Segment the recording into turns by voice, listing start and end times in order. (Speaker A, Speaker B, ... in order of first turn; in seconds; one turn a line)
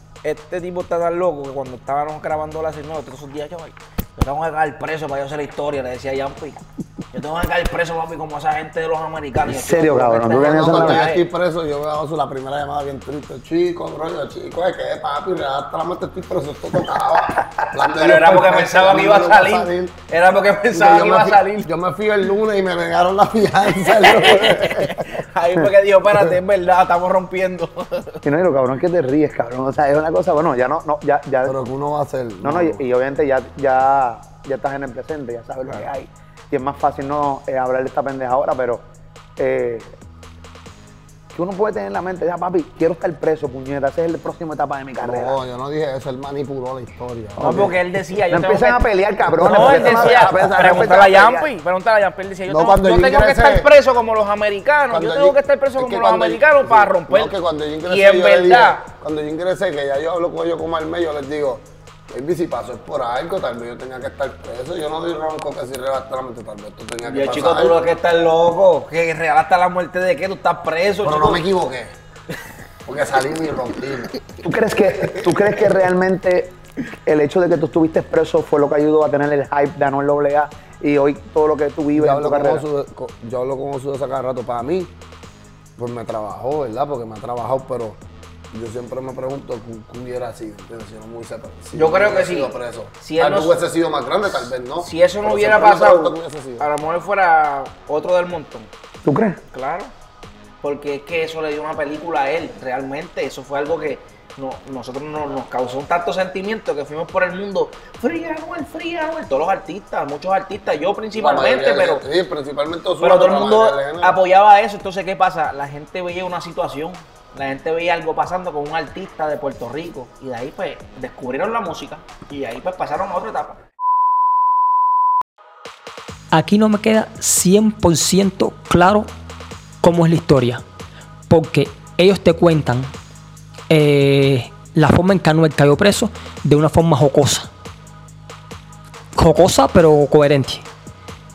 Speaker A: 0.2-6.6
Speaker A: 7.1-11.2
Speaker B: 9.5-11.1
Speaker C: 10.4-19.9
Speaker A: 17.8-21.7
Speaker C: 20.7-25.0
Speaker A: 24.0-28.2
Speaker B: 28.2-31.6
Speaker C: 31.4-32.9
Speaker B: 32.4-38.8
Speaker B: 39.4-40.0
Speaker B: 41.3-45.4
Speaker C: 45.0-47.7
Speaker A: 47.4-58.8
Speaker B: 47.4-47.7
Speaker B: 48.3-51.5
Speaker C: 49.5-50.9
Speaker C: 52.5-53.7
Speaker C: 54.9-67.8
Speaker A: 67.0-71.5
Speaker C: 71.0-71.9
Speaker C: 72.8-74.2
Speaker B: 74.4-82.6
Speaker C: 81.9-84.9
Speaker C: 85.8-88.0
Speaker C: 88.5-96.7
Speaker A: 91.7-93.7
Speaker A: 94.2-98.7
Speaker B: 99.0-99.4
Speaker A: 99.5-99.9
Speaker A: 100.6-112.0
Speaker C: 111.1-114.2
Speaker A: 113.0-123.6
Speaker D: 126.3-129.1
Speaker D: 129.8-130.6
Speaker D: 131.3-132.9
Speaker D: 133.7-137.5
Speaker D: 139.2-140.7